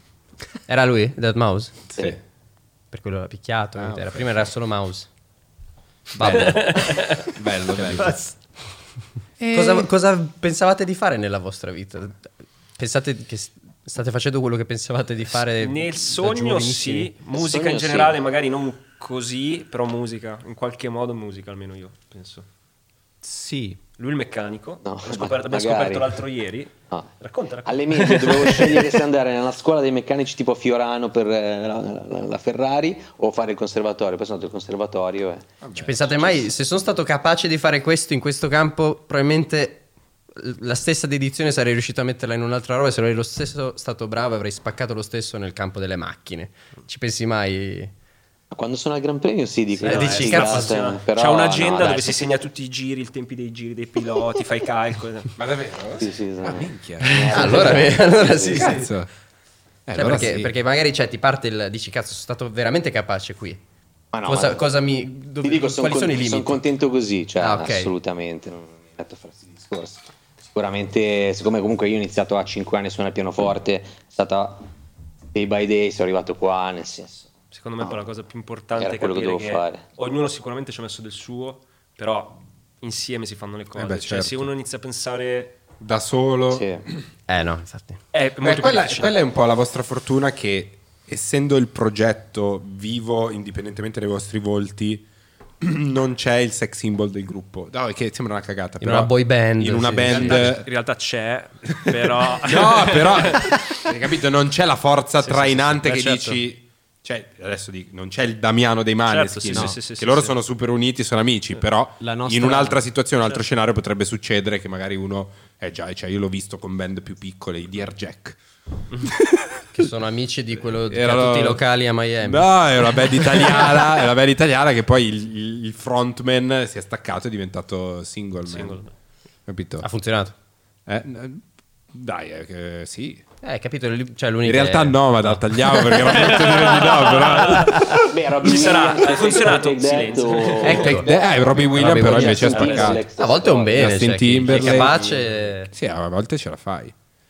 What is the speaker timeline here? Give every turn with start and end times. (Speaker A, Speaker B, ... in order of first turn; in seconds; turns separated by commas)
Speaker A: 0.7-1.9, Speaker A: 2.9-5.1, Speaker B: 3.8-4.5, Speaker A: 6.2-6.9, Speaker B: 6.2-8.2, Speaker C: 6.2-7.3, Speaker D: 7.7-8.3, Speaker B: 9.4-9.9, Speaker A: 9.5-12.2, Speaker A: 12.8-17.1, Speaker C: 15.4-22.4, Speaker E: 17.3-18.2, Speaker D: 23.2-23.8, Speaker C: 24.0-29.0, Speaker E: 24.8-26.1, Speaker E: 27.6-35.5, Speaker B: 35.6-36.5, Speaker A: 35.7-39.8, Speaker A: 40.4-47.9, Speaker E: 48.5-52.2, Speaker C: 49.8-55.3, Speaker A: 49.8-50.8, Speaker B: 55.4-57.9, Speaker E: 56.0-58.8, Speaker A: 57.3-58.9, Speaker B: 58.4-59.1, Speaker B: 59.9-60.5, Speaker A: 59.9-63.6, Speaker E: 64.1-64.7, Speaker A: 64.2-66.6, Speaker E: 65.4-74.6, Speaker A: 67.4-67.9, Speaker E: 75.3-77.3, Speaker C: 77.5-85.6, Speaker E: 78.8-79.8, Speaker B: 83.7-84.5, Speaker B: 85.8-87.0, Speaker E: 86.5-86.8, Speaker A: 87.3-88.0, Speaker C: 88.1-89.1, Speaker B: 88.4-95.0, Speaker B: 95.6-100.7, Speaker A: 98.8-100.5, Speaker C: 100.0-103.8, Speaker B: 101.7-118.4, Speaker C: 105.2-106.4, Speaker C: 109.0-110.4, Speaker D: 109.5-109.8, Speaker D: 112.0-112.8, Speaker B: 119.0-119.9, Speaker A: 119.7-123.8, Speaker B: 120.8-121.6, Speaker B: 122.2-128.8, Speaker C: 128.4-128.9, Speaker B: 129.5-129.9, Speaker A: 129.8-130.3, Speaker B: 130.8-133.2, Speaker A: 133.4-136.3, Speaker B: 134.4-138.1, Speaker C: 136.0-141.0, Speaker E: 137.9-145.2, Speaker B: 140.6-143.1, Speaker A: 140.7-141.1, Speaker A: 141.7-145.7, Speaker B: 143.7-145.0, Speaker B: 145.7-146.9